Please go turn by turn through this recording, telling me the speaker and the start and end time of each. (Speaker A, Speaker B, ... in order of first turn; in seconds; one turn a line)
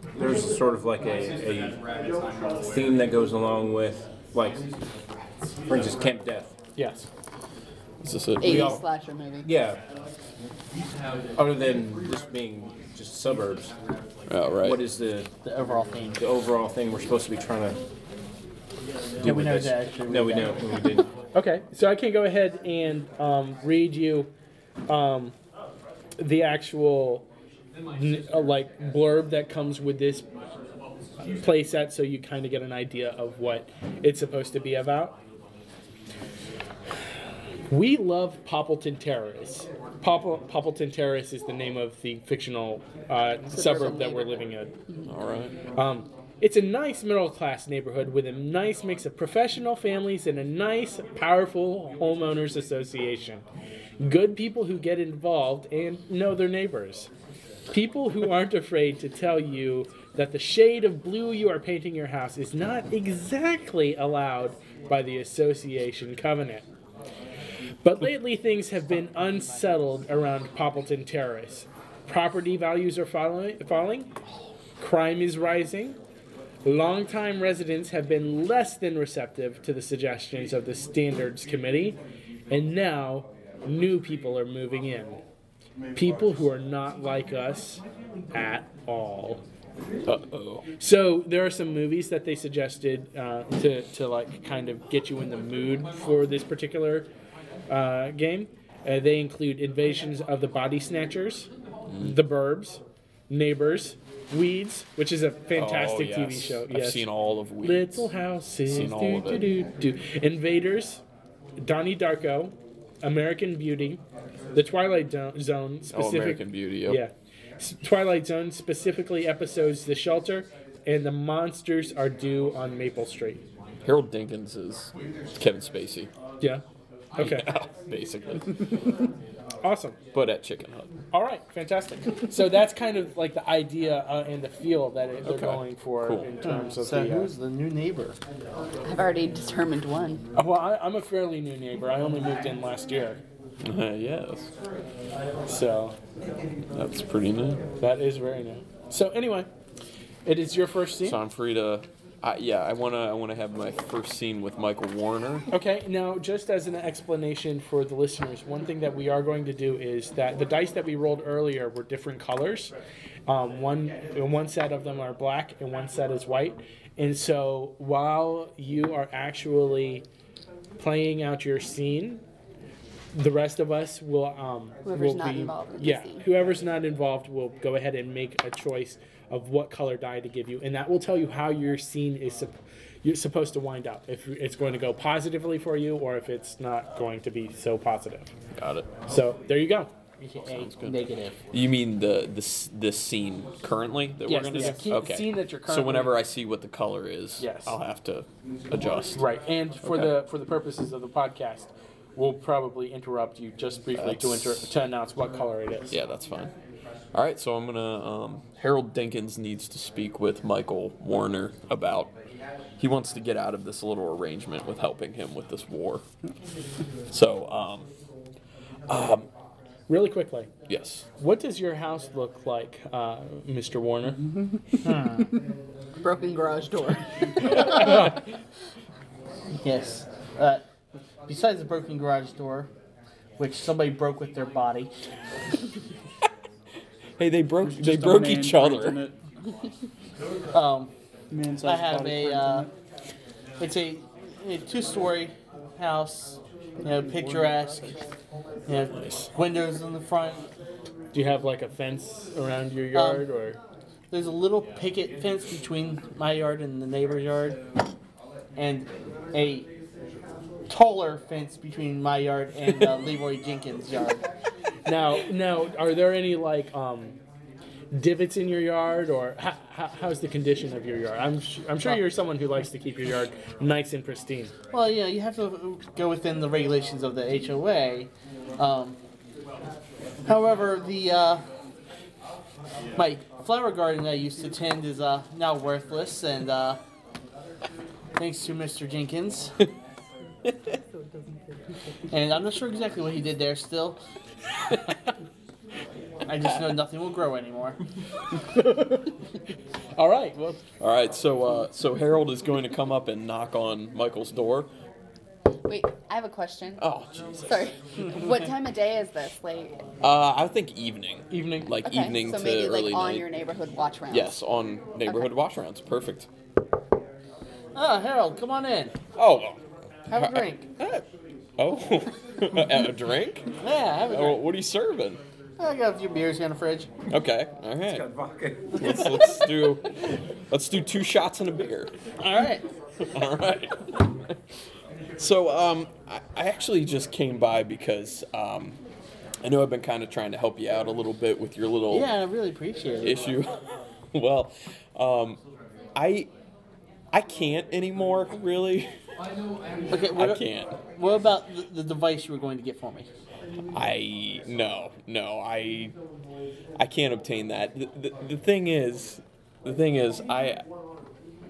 Speaker A: 0.2-1.8
Speaker A: 2.6-4.7
Speaker A: 5.7-6.6
Speaker B: 6.8-7.1
Speaker C: 8.0-8.8
Speaker D: 8.4-9.5
Speaker A: 8.5-8.8
Speaker A: 9.4-9.8
Speaker A: 11.4-13.7
Speaker C: 14.3-14.8
Speaker A: 14.6-15.3
Speaker E: 15.4-16.2
Speaker A: 16.2-17.8
Speaker A: 19.2-21.1
Speaker E: 19.2-20.6
Speaker B: 21.3-24.3
Speaker B: 24.9-25.4
Speaker B: 26.2-27.3
Speaker B: 27.9-30.3
Speaker B: 31.4-35.2
Speaker B: 37.7-44.8
Speaker D: 43.5-44.4
Speaker C: 45.1-45.5
Speaker B: 45.8-53.4
Speaker B: 54.0-57.1
Speaker B: 57.7-66.7
Speaker B: 67.8-74.1
Speaker B: 74.8-76.0
Speaker B: 76.7-82.0
Speaker B: 82.5-85.2
Speaker B: 85.9-89.4
Speaker C: 90.1-90.7
Speaker B: 90.8-97.1
Speaker B: 97.7-107.1
Speaker C: 101.9-102.2
Speaker C: 105.5-108.1
Speaker B: 107.6-111.0
Speaker C: 108.7-109.5
Speaker B: 111.6-114.0
Speaker B: 114.5-123.4
Speaker C: 115.9-117.0
Speaker C: 123.8-126.1
Speaker B: 127.2-127.5
Speaker C: 127.2-128.8
Speaker B: 129.6-130.0
Speaker C: 130.1-130.9
Speaker B: 131.1-137.3
Speaker C: 135.2-136.3
Speaker E: 136.4-138.2
Speaker D: 138.8-140.2
Speaker B: 140.3-143.2
Speaker C: 143.6-144.5
Speaker B: 145.5-145.9
Speaker C: 146.7-147.6
Speaker B: 147.8-149.5
Speaker B: 150.2-151.2
Speaker C: 151.0-155.5
Speaker B: 155.5-162.7
Speaker B: 163.3-170.1
Speaker B: 170.8-172.2
Speaker B: 173.1-188.3
Speaker D: 174.8-176.2
Speaker C: 188.6-188.9
Speaker B: 189.1-189.9
Speaker E: 190.2-191.4
Speaker C: 190.4-199.2
Speaker B: 194.3-196.2
Speaker E: 194.3-194.9
Speaker B: 197.4-197.8
Speaker B: 199.2-205.9
Speaker C: 199.8-200.2
Speaker C: 203.9-204.7
Speaker C: 205.9-206.5
Speaker C: 207.1-212.1
Speaker C: 212.8-216.0
Speaker C: 217.1-217.9
Speaker C: 218.9-219.3
Speaker B: 219.9-220.5
Speaker C: 220.7-221.1
Speaker B: 221.2-224.2
Speaker F: 224.2-225.2
Speaker E: 224.8-225.3
Speaker D: 226.0-228.1
Speaker B: 227.7-228.1
Speaker E: 229.6-230.7
Speaker E: 231.3-232.7
Speaker E: 233.4-234.9
Speaker C: 237.2-239.0
Speaker F: 237.6-239.2
Speaker E: 240.5-240.9
Speaker F: 241.3-242.7
Speaker E: 241.7-242.7
Speaker E: 243.6-247.9
Speaker E: 248.7-250.4
Speaker B: 251.1-253.6
Speaker E: 252.9-253.3
Speaker E: 254.1-257.6
Speaker E: 258.6-259.7
Speaker E: 260.7-264.2
Speaker B: 264.9-267.2
Speaker B: 267.9-274.5
Speaker E: 274.7-279.0
Speaker E: 280.3-281.4
Speaker E: 283.0-286.8
Speaker E: 288.2-289.5
Speaker C: 290.5-290.8
Speaker E: 292.1-294.0
Speaker E: 296.3-297.8
Speaker B: 300.0-300.6
Speaker C: 300.8-304.7
Speaker D: 305.7-306.8
Speaker C: 306.8-307.7
Speaker D: 307.5-309.8
Speaker C: 310.0-313.2
Speaker B: 311.3-311.7
Speaker D: 311.8-314.4
Speaker C: 314.1-316.3
Speaker D: 315.1-315.3
Speaker E: 317.8-318.9
Speaker C: 319.2-319.6
Speaker E: 320.1-320.7
Speaker C: 320.1-321.0
Speaker C: 321.6-323.5
Speaker E: 323.6-324.4
Speaker C: 324.1-325.2
Speaker E: 325.6-326.9
Speaker C: 327.1-328.1
Speaker A: 327.8-328.9
Speaker C: 328.8-331.9
Speaker E: 329.0-329.5
Speaker E: 332.2-332.6
Speaker C: 333.1-334.2
Speaker C: 335.2-338.8
Speaker C: 339.4-342.1
Speaker E: 341.9-343.3
Speaker C: 343.0-345.4
Speaker C: 345.9-346.3
Speaker C: 347.1-348.9
Speaker E: 349.9-353.1
Speaker C: 350.1-350.8
Speaker C: 353.7-355.9
Speaker C: 356.8-360.6